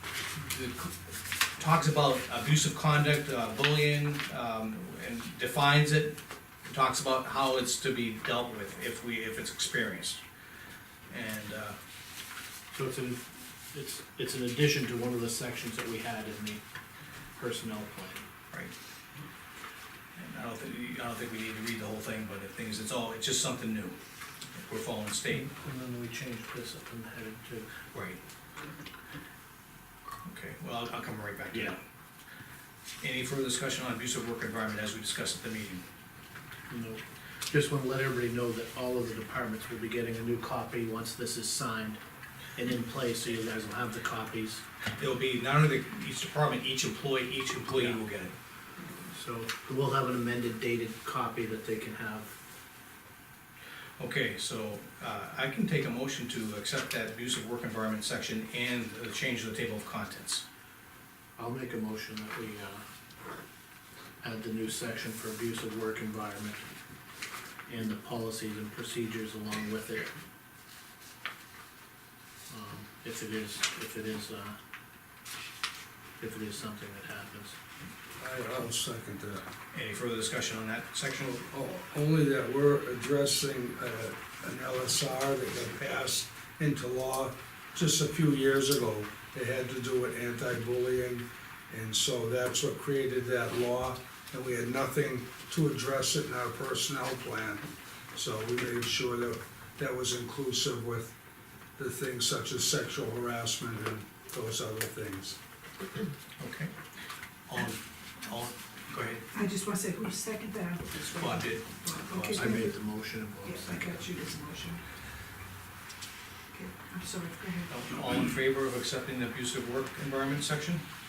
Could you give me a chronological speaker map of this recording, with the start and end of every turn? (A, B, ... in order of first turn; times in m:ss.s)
0:00.3-0:10.2 A
0:11.1-0:11.8 A
0:12.7-0:16.6 B
0:17.4-0:18.3 B
0:20.2-0:24.0 A
0:24.6-0:25.5 A
0:25.3-0:27.7 B
0:27.9-0:28.2 A
0:30.2-0:31.8 A
0:31.5-0:31.8 B
0:33.0-0:35.8 A
0:36.7-0:42.0 B
0:42.6-0:44.6 B
0:45.0-0:48.3 A
0:49.1-0:52.4 B
0:54.0-1:00.4 A
1:01.4-1:02.8 B
1:04.2-1:06.6 B
1:07.7-1:10.1 B
1:12.5-1:14.6 B
1:16.2-1:17.6 B
1:18.2-1:19.4 C
1:19.7-1:21.4 A
1:21.5-1:41.1 C
1:41.8-1:45.4 C
1:46.4-1:46.7 A
1:47.5-1:49.3 A
1:49.3-1:54.8 D
1:51.1-1:52.6 A
1:52.4-1:54.0 B
1:56.5-1:57.7 D
1:57.7-2:00.8 A